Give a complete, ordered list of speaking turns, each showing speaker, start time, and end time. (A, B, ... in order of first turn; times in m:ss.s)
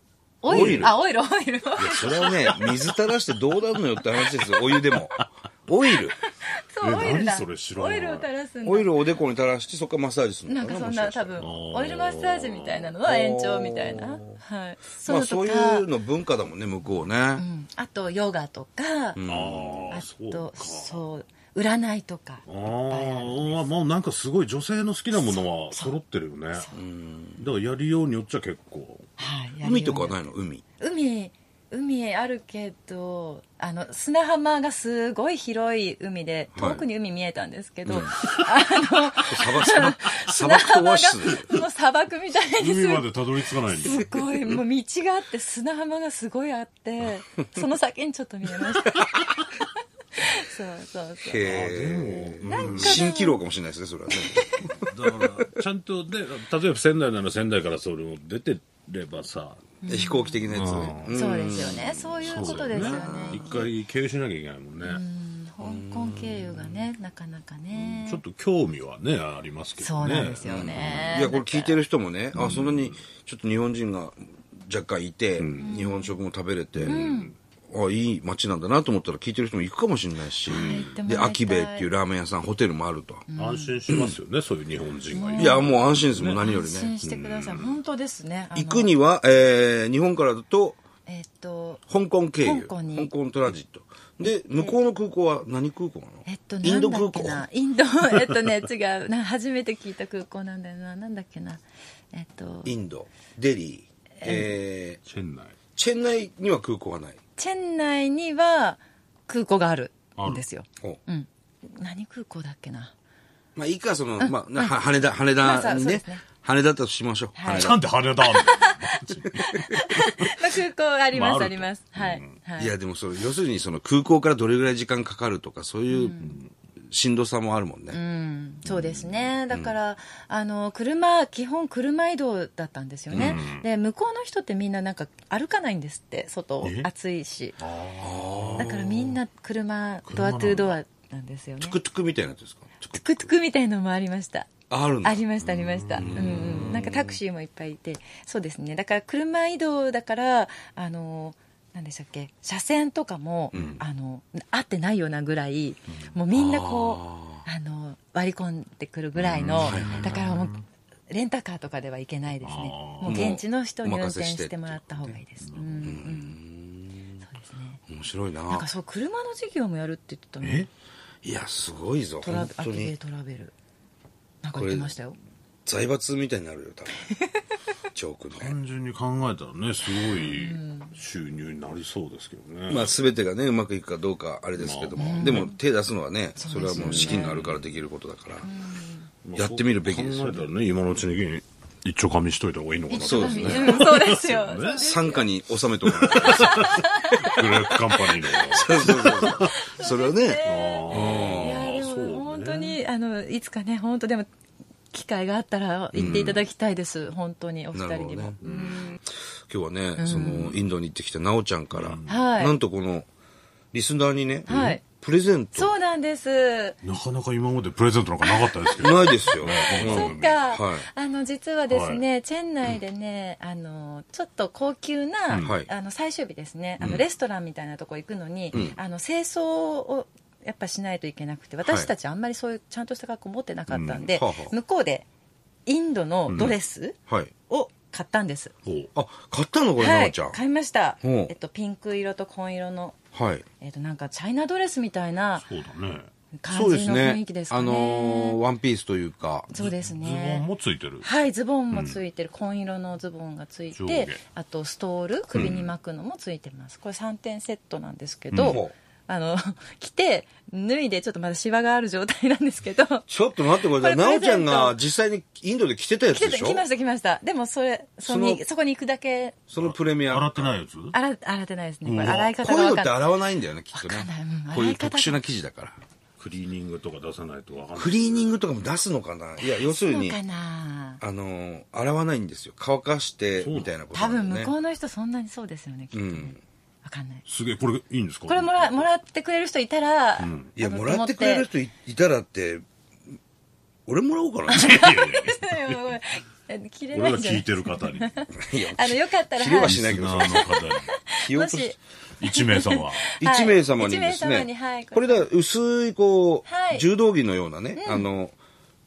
0:00.4-0:03.1 A
0:00.4-0:00.9 B
0:00.5-0:01.0 C
0:01.8-0:06.2 B
0:03.9-0:05.2 A
0:05.9-0:09.1 A
0:06.8-0:08.3 C
0:08.6-0:11.5 B
0:10.5-0:15.9 A
0:11.4-0:12.9 C
0:13.0-0:14.4 B
0:15.0-0:17.4 B
0:16.8-0:19.2 A
0:19.2-0:19.8 B
0:19.2-0:21.0 C
0:19.8-0:23.6 A
0:22.5-0:26.6 C
0:25.1-0:26.0 A
0:26.5-0:26.8 A
0:26.7-0:27.4 B
0:27.4-0:29.0 C
0:29.2-0:30.2 A
0:29.6-0:30.6 B
0:30.8-0:51.5 A
0:36.5-0:36.8 B
0:37.8-0:38.2 B
0:39.2-0:41.5 B
0:42.6-0:44.6 C
0:51.2-0:54.9 B
0:51.4-0:53.1 C
0:52.5-0:53.4 A
0:54.2-0:54.4 A
0:54.6-0:59.8 C
0:59.8-1:00.5 A
0:59.9-1:03.6 B
1:00.5-1:01.2 C
1:01.1-1:03.7 A
1:02.2-1:05.0 C
1:04.8-1:08.2 A
1:05.6-1:06.8 B
1:07.7-1:11.2 C
1:09.8-1:11.8 A
1:10.4-1:17.1 B
1:12.3-1:12.7 A
1:12.7-1:13.0 C
1:15.4-1:15.7 C
1:15.6-1:16.2 A
1:16.8-1:17.3 C
1:16.8-1:17.3 A
1:17.7-1:23.2 B
1:20.4-1:21.9 A
1:20.5-1:21.0 C
1:23.3-1:23.8 A
1:23.4-1:26.3 C
1:23.9-1:24.1 B
1:25.1-1:28.9 A
1:25.3-1:27.0 B
1:27.0-1:27.8 C
1:28.5-1:30.8 B
1:31.0-1:31.9 A
1:31.9-1:37.4 B
1:32.4-1:33.1 A
1:34.3-1:34.8 A
1:36.2-1:41.6 A
1:42.1-1:42.7 A
1:42.6-1:45.0 B
1:44.2-1:44.6 A
1:45.0-1:45.6 C
1:45.8-1:47.2 B
1:47.4-1:52.9 A
1:50.2-1:50.4 C
1:53.6-1:57.8 B
1:54.2-1:54.8 A
1:55.4-1:56.3 A
1:57.3-2:02.8 A
1:57.5-2:00.5 C
1:59.5-1:59.8 B
2:01.1-2:02.3 C
2:02.6-2:06.3 B
2:05.9-2:06.4 A
2:06.2-2:06.5 C
2:06.9-2:08.0 B
2:07.9-2:17.6 A
2:08.6-2:09.3 C
2:13.1-2:13.4 B
2:13.1-2:13.6 C
2:16.6-2:16.9 C
2:17.6-2:18.8 C
2:18.0-2:19.1 B
2:18.5-2:21.8 A
2:20.0-2:20.8 C
2:21.6-2:23.3 B
2:22.9-2:40.6 A
2:24.7-2:25.2 B
2:25.4-2:26.8 C
2:25.9-2:27.2 B
2:33.5-2:33.8 B
2:33.5-2:33.8 C
2:36.3-2:37.4 B
2:39.2-2:40.6 C
2:39.4-2:40.1 B
2:41.1-2:46.3 A
2:42.4-2:43.2 C
2:43.0-2:45.0 B
2:45.0-2:46.0 C
2:45.8-2:47.2 B
2:47.2-2:47.8 A
2:47.9-2:48.6 B
2:48.5-2:50.7 A
2:50.4-2:50.7 C
2:51.2-2:52.9 B
2:52.2-2:53.5 A
2:54.4-2:55.2 A
2:54.5-2:54.9 B
2:55.6-2:57.0 B
2:57.0-2:57.4 A
2:57.9-2:58.6 B
2:58.4-3:02.9 C
2:59.9-3:01.0 A
3:02.7-3:08.5 B
3:04.6-3:05.5 C
3:04.9-3:05.5 A
3:06.4-3:07.4 A
3:06.7-3:07.6 C
3:08.4-3:09.2 A
3:09.2-3:14.8 C
3:09.3-3:10.4 B
3:12.9-3:15.3 A
3:13.0-3:13.8 B
3:14.7-3:17.4 B
3:15.8-3:19.6 C
3:16.2-3:18.3 A
3:18.3-3:21.7 B
3:19.4-3:24.3 A
3:20.4-3:22.8 C
3:24.9-3:29.0 A
3:25.9-3:26.4 B
3:27.7-3:28.4 B
3:28.4-3:28.9 C
3:29.5-3:33.1 B
3:30.0-3:30.6 A
3:31.7-3:32.3 C
3:32.1-3:32.6 A
3:33.7-3:35.7 B
3:34.5-3:34.8 C
3:34.5-3:34.9 A
3:35.5-3:36.8 A
3:36.8-3:40.4 C
3:38.2-3:55.0 A
3:38.8-3:40.9 B
3:41.7-3:42.0 C
3:45.4-3:45.7 B
3:46.8-3:47.0 C
3:51.6-3:51.9 B
3:53.7-3:54.1 C
3:54.1-3:54.5 B
3:55.6-3:58.5 A
3:56.3-3:56.5 C
3:57.1-3:57.3 B
3:58.9-4:00.4 B
3:59.8-4:05.4 A
4:01.0-4:01.3 B
4:03.1-4:03.4 B
4:05.4-4:06.1 C
4:06.4-4:08.4 A
4:06.5-4:09.6 B
4:09.5-4:10.5 A
4:09.5-4:11.1 C
4:11.0-4:23.1 A
4:11.7-4:12.0 C
4:13.7-4:14.2 C
4:15.3-4:15.7 C
4:18.3-4:18.6 C
4:18.4-4:18.7 B
4:23.1-4:26.6 B
4:23.7-4:24.8 A
4:26.1-4:29.5 A
4:28.0-4:28.4 B
4:29.5-4:30.5 B
4:29.6-4:31.0 C
4:30.9-4:33.1 A
4:31.8-4:32.3 C
4:32.0-4:35.8 B
4:33.7-4:35.2 A
4:36.2-4:38.4 C
4:37.8-4:40.2 B
4:39.4-4:41.0 A
4:41.0-4:44.5 B
4:43.4-4:43.8 C
4:43.9-4:47.2 A
4:45.9-4:46.4 B
4:47.3-4:48.8 C
4:48.3-4:51.5 A
4:50.2-4:50.6 C
4:50.6-4:52.6 B
4:53.9-4:54.8 B
4:54.5-5:05.2 A
4:54.5-4:55.9 C
4:56.9-4:58.1 C
4:58.4-5:00.5 B
4:59.6-5:00.9 C
5:01.2-5:01.7 B
5:02.2-5:03.0 C
5:03.2-5:08.3 B
5:06.4-5:06.9 A
5:07.8-5:08.1 A